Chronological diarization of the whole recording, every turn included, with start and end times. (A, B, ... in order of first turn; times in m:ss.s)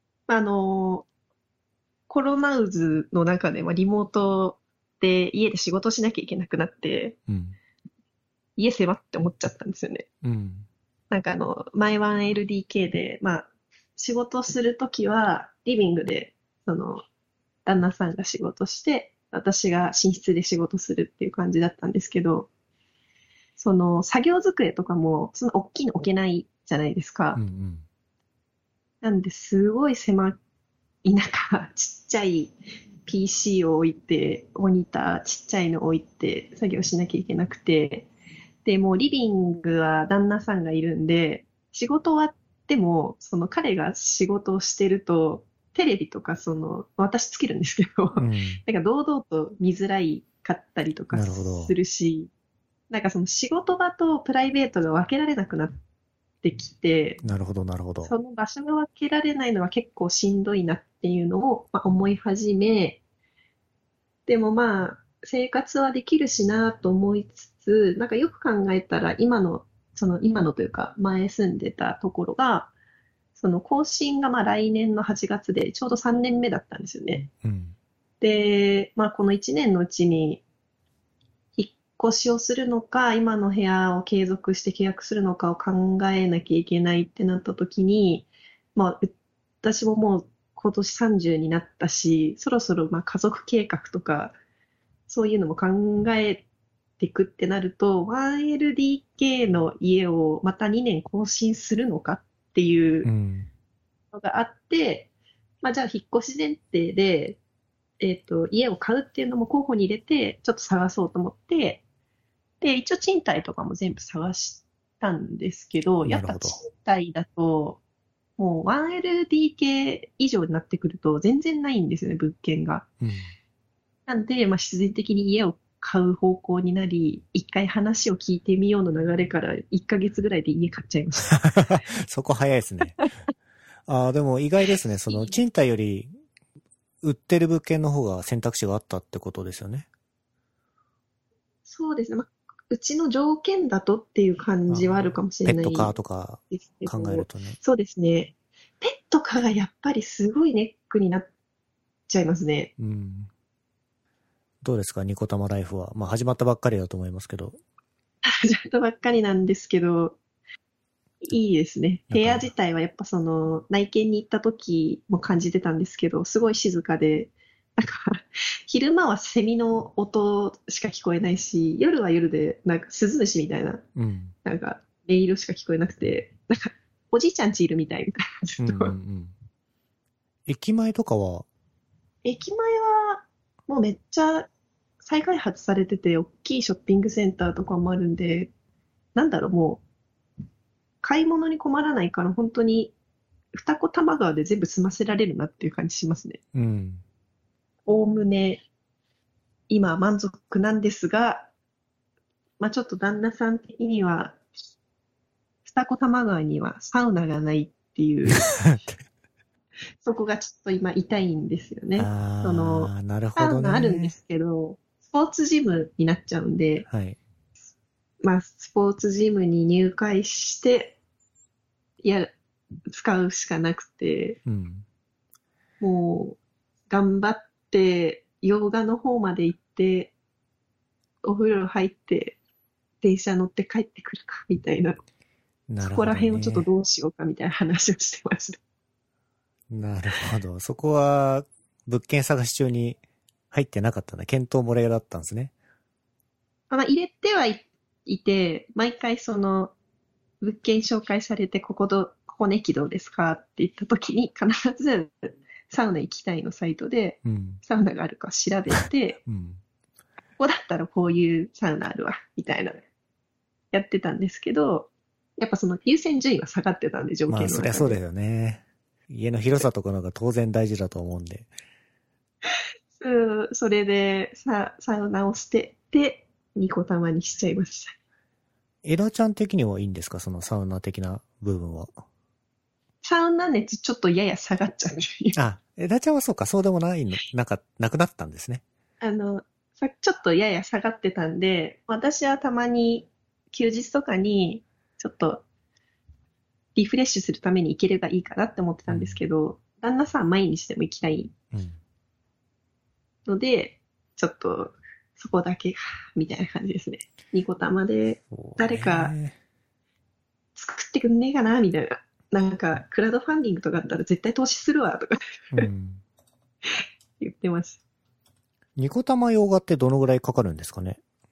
0:00.3-0:01.1 A
0:02.1-0:07.2 A
0:07.3-0:07.6 B
0:08.6-0:10.1 A
0:10.2-0:10.7 B
0:11.1-0:17.0 A
0:17.7-0:22.5 A
0:23.6-0:27.4 A
0:27.4-0:27.9 B
0:29.0-0:30.4 A
0:31.0-0:32.5 A
0:33.1-0:38.1 A
0:38.6-0:52.3 A
0:48.2-0:48.6 B
0:51.1-0:51.8 B
0:52.9-0:55.8 A
0:56.4-0:57.2 A
0:57.2-0:58.1 B
0:58.0-1:03.0 A
1:04.3-1:12.7 A
1:13.4-1:17.3 A
1:17.3-1:17.8 B
1:18.2-1:20.4 A
1:21.6-1:34.4 A
1:35.1-1:36.4 A
1:37.0-1:43.1 A
1:43.0-1:43.5 B
1:44.1-1:45.1 A
1:45.6-1:47.4 A
1:48.0-1:51.8 A
1:52.6-1:57.8 A
1:56.0-1:56.6 B
1:58.4-2:02.9 A
2:03.0-2:03.3 B
2:04.1-2:11.8 A
2:11.4-2:13.0 B
2:13.9-2:16.1 B
2:17.0-2:19.9 B
2:21.7-2:25.9 A
2:24.7-2:27.6 B
2:26.5-2:31.3 A
2:32.1-2:32.7 A
2:32.8-2:33.3 B
2:34.6-2:37.6 B
2:38.3-2:40.2 A
2:41.2-2:53.8 A
2:42.1-2:42.5 B
2:54.0-2:54.4 B
2:54.4-2:59.0 A
2:58.6-2:59.4 B
3:00.5-3:01.5 B
3:02.2-3:04.5 A
3:05.0-3:08.5 A
3:09.2-3:09.8 A
3:11.0-3:12.9 A
3:13.5-3:16.4 A
3:16.5-3:17.0 B
3:17.9-3:18.6 A
3:19.7-3:21.5 A
3:22.6-3:24.4 A
3:25.6-3:28.5 A
3:28.6-3:29.0 B
3:30.0-3:36.9 A
3:32.0-3:34.2 B
3:36.9-3:37.2 B
3:38.2-3:41.0 A
3:42.0-3:42.3 A
3:42.9-3:44.4 A
3:44.5-3:44.8 B
3:45.8-3:46.4 A
3:46.9-3:50.1 A
3:51.2-3:52.4 A
3:53.0-3:55.0 A
3:55.7-3:56.7 B
3:55.8-3:58.6 A
3:59.7-4:03.0 B
4:03.5-4:05.5 B
4:06.7-4:09.7 A
4:10.4-4:19.2 A
4:17.2-4:17.6 B
4:18.7-4:19.6 B
4:20.4-4:22.8 A
4:23.7-4:28.0 A
4:27.3-4:31.5 B
4:33.0-4:38.0 A
4:38.8-4:42.0 B
4:43.0-4:45.4 A
4:45.4-4:48.6 B
4:49.0-4:55.4 A
4:56.8-5:01.3 A
4:58.9-4:59.2 B
5:01.5-5:01.8 B
5:03.3-5:09.2 A
5:08.3-5:09.4 B
5:10.6-5:15.6 A
5:15.5-5:16.0 B
5:17.2-5:17.8 A
5:18.8-5:21.0 B